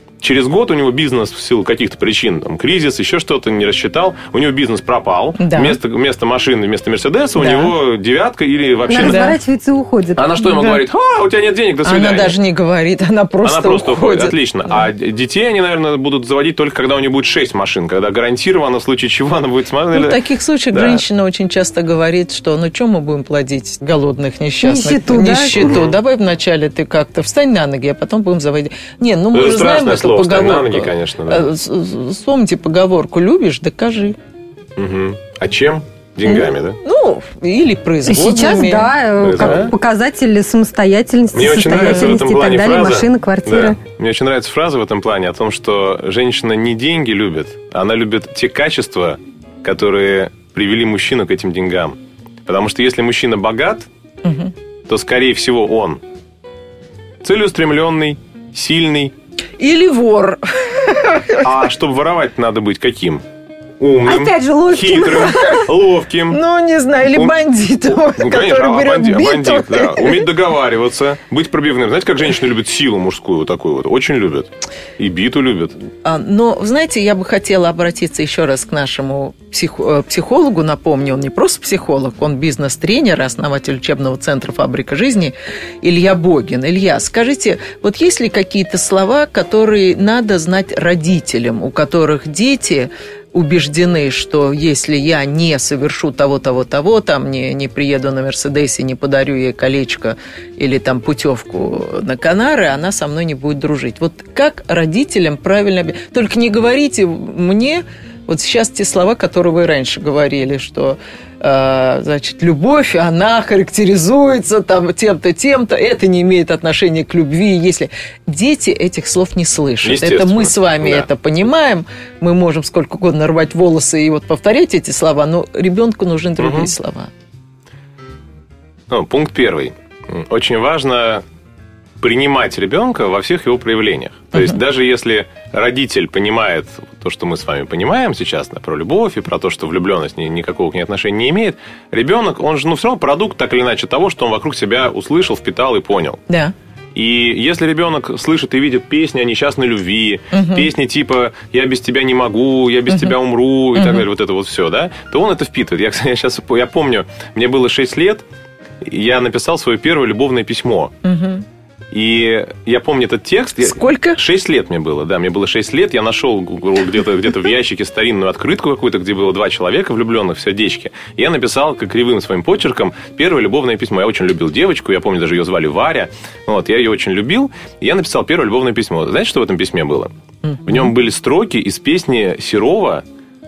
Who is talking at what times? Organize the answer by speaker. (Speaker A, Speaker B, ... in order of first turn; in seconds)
Speaker A: 0.2-9.4, 10.2-12.3, 13.4-20.2, 20.7-21.0, 25.6-25.9, 29.3-31.4, 34.8-36.8, 39.2-39.7, 41.3-53.9, 54.9-56.0, 57.2-59.1, 61.4-63.2, 63.8-66.4, 68.0-75.8, 119.8-121.1, 126.4-126.7, 128.9-131.2, 132.0-146.2, 146.9-158.2, 158.8-160.9, 161.9-180.1, 180.7-183.0
Speaker B: 5.4-5.8, 7.4-7.7, 9.0-9.3, 11.8-14.9, 19.9-34.2, 36.2-39.7, 41.7-42.1, 54.2-54.5, 59.6-61.5, 66.3-70.3, 76.0-127.1, 146.3-146.5, 150.3-150.6, 153.8-154.1, 161.0-161.4, 163.6-164.2, 180.4-180.9
Speaker C: 8.9-10.8, 24.6-25.8, 38.1-43.8, 64.0-65.6